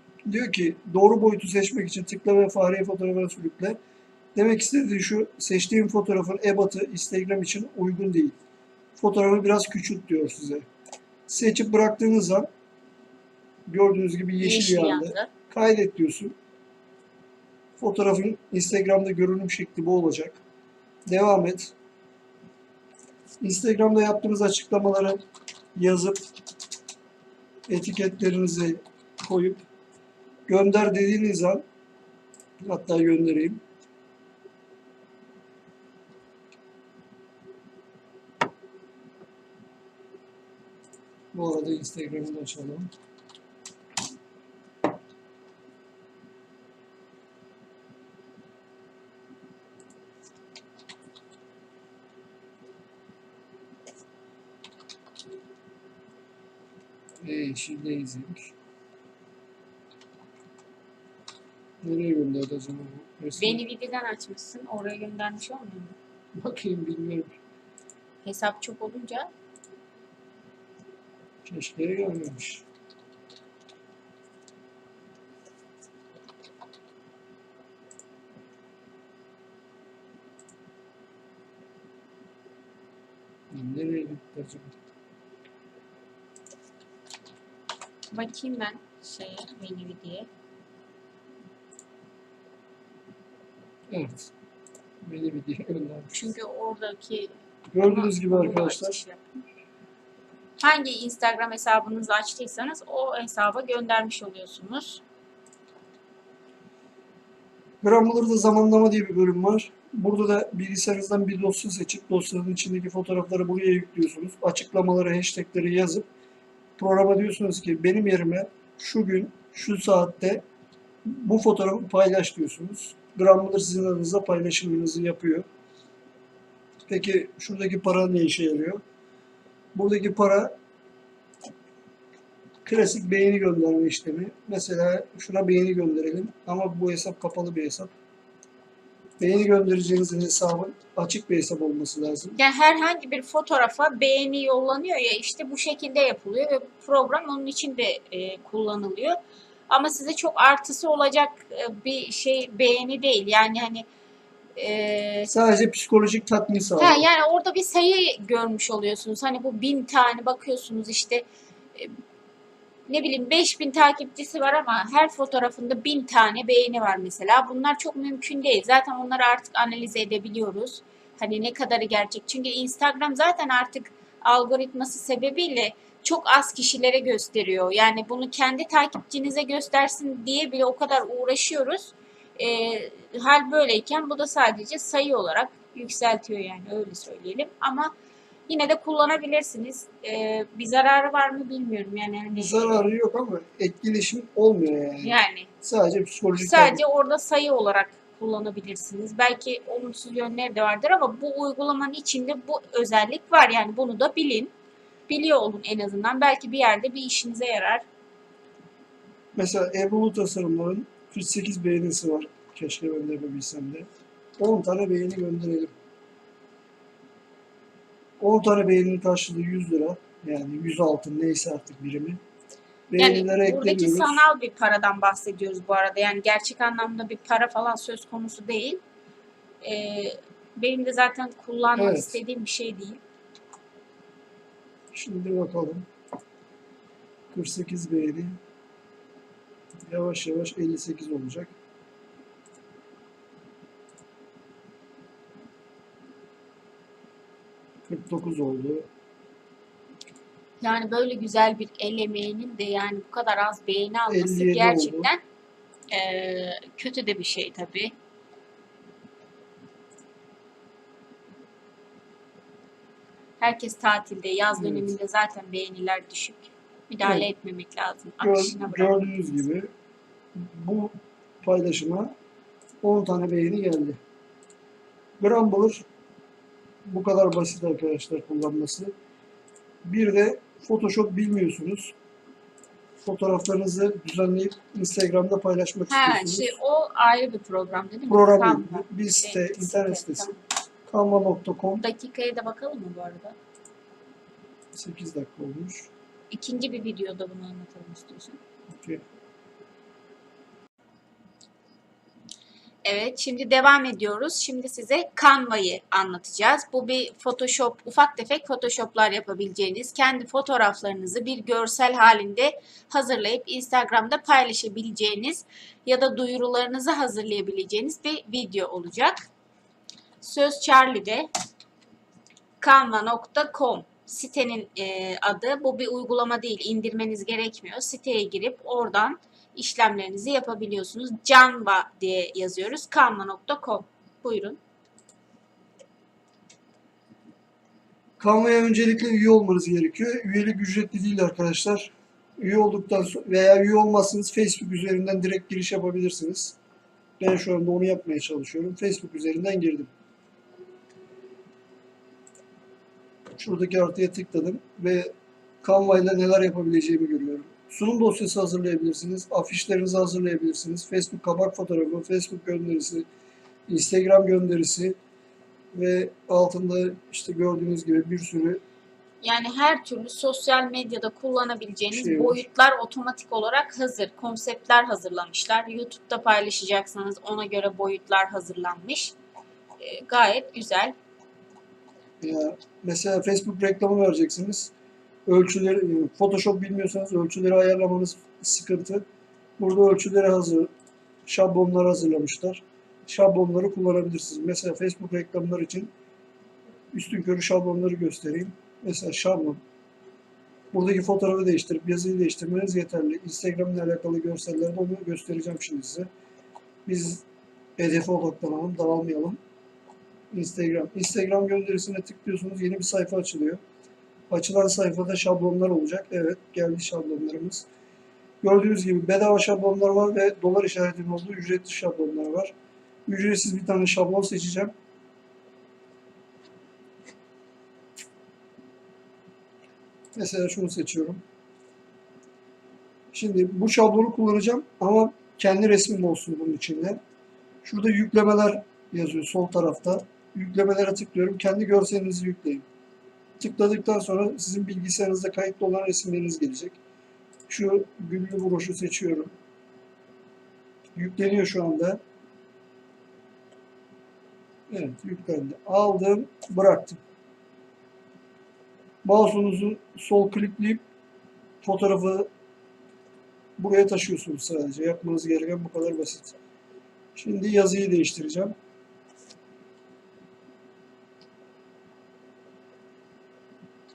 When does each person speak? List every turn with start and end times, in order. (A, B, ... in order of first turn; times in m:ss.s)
0:00.2-0:03.8 A
0:04.3-0:08.4 A
0:09.0-0:10.6 A
0:11.3-0:12.5 A
0:13.7-0:16.3 A
0:14.4-0:15.3 B
0:17.8-0:20.4 A
0:21.1-0:21.7 A
0:23.4-0:25.2 A
0:25.8-0:26.2 A
0:27.7-0:29.6 A
0:30.5-0:31.6 A
0:32.6-0:33.6 A
0:41.3-0:42.9 A
0:57.2-0:58.5 A
1:01.8-1:03.6 A
1:03.4-1:06.0 B
1:06.3-1:07.3 A
1:08.2-1:09.3 B
1:11.4-1:12.6 A
1:23.5-1:24.7 A
1:28.1-1:30.3 B
1:33.9-1:34.3 A
1:35.0-1:36.2 A
1:36.1-1:39.4 B
1:37.7-1:39.0 A
1:40.6-1:45.0 B
1:47.8-1:56.1 A
1:56.8-2:00.4 A
2:01.0-2:05.5 A
2:06.9-2:08.8 A
2:09.7-2:10.5 A
2:12.6-2:17.9 A
2:19.2-2:22.4 A
2:22.4-2:29.2 B
2:29.7-2:33.9 B
2:34.6-2:35.3 B
2:35.3-2:37.0 A
2:36.8-2:41.9 B
2:42.9-3:07.9 B
3:08.5-3:12.8 B
3:12.3-3:16.8 A
3:15.0-3:15.5 B
3:16.3-3:24.5 B
3:25.1-3:27.8 B
3:29.4-3:33.9 A
3:34.4-3:35.7 A
3:38.2-3:42.2 A
3:42.9-3:44.3 A
3:43.0-3:48.8 B
3:49.6-3:53.0 B
3:51.8-3:52.2 A
3:54.9-3:55.8 A
3:57.3-3:58.4 A
3:59.9-4:01.5 A
4:07.9-4:08.9 A
4:10.6-4:15.2 B
4:14.1-4:15.1 A
4:15.9-4:17.9 B
4:23.4-4:29.0 B
4:24.6-4:24.9 A
4:28.2-4:29.7 A
4:30.3-4:32.1 A
4:32.8-4:34.0 A
4:35.2-4:35.8 A
4:36.8-4:38.9 A
4:39.8-4:41.9 A
4:43.0-4:46.6 A
4:45.9-4:50.4 B
4:48.1-4:50.3 A
4:50.9-4:51.8 A
4:51.8-4:53.4 B
4:54.7-4:55.9 A
4:56.3-4:58.4 B
5:02.8-5:19.3 B
5:20.2-5:21.3 B
5:22.6-5:34.6 B
5:38.2-5:46.6 A
5:47.2-5:49.9 A
5:53.4-5:55.1 A
5:55.6-6:03.0 A
6:03.7-6:05.0 A
6:05.7-6:08.6 A
6:09.2-6:19.1 B
6:11.9-6:12.4 A
6:19.8-6:20.9 B
6:22.2-6:24.7 A
6:25.2-6:29.0 A
6:29.6-6:30.7 A
6:31.2-6:35.9 A
6:36.9-6:39.6 A
6:40.7-6:46.1 A
6:46.8-6:47.2 A
6:47.8-6:49.4 A
6:50.3-6:53.6 A
6:54.3-6:57.7 A
6:58.4-7:02.5 A
7:03.1-7:04.7 A
7:10.1-7:11.2 A
7:13.1-7:17.0 A
7:17.6-7:22.6 A
7:23.4-7:26.8 A
7:27.5-7:29.3 A
7:30.9-7:32.0 A
7:34.7-7:37.0 A
7:39.0-7:40.8 A
7:41.6-7:42.3 A
7:43.6-7:46.4 A
7:47.1-7:48.5 A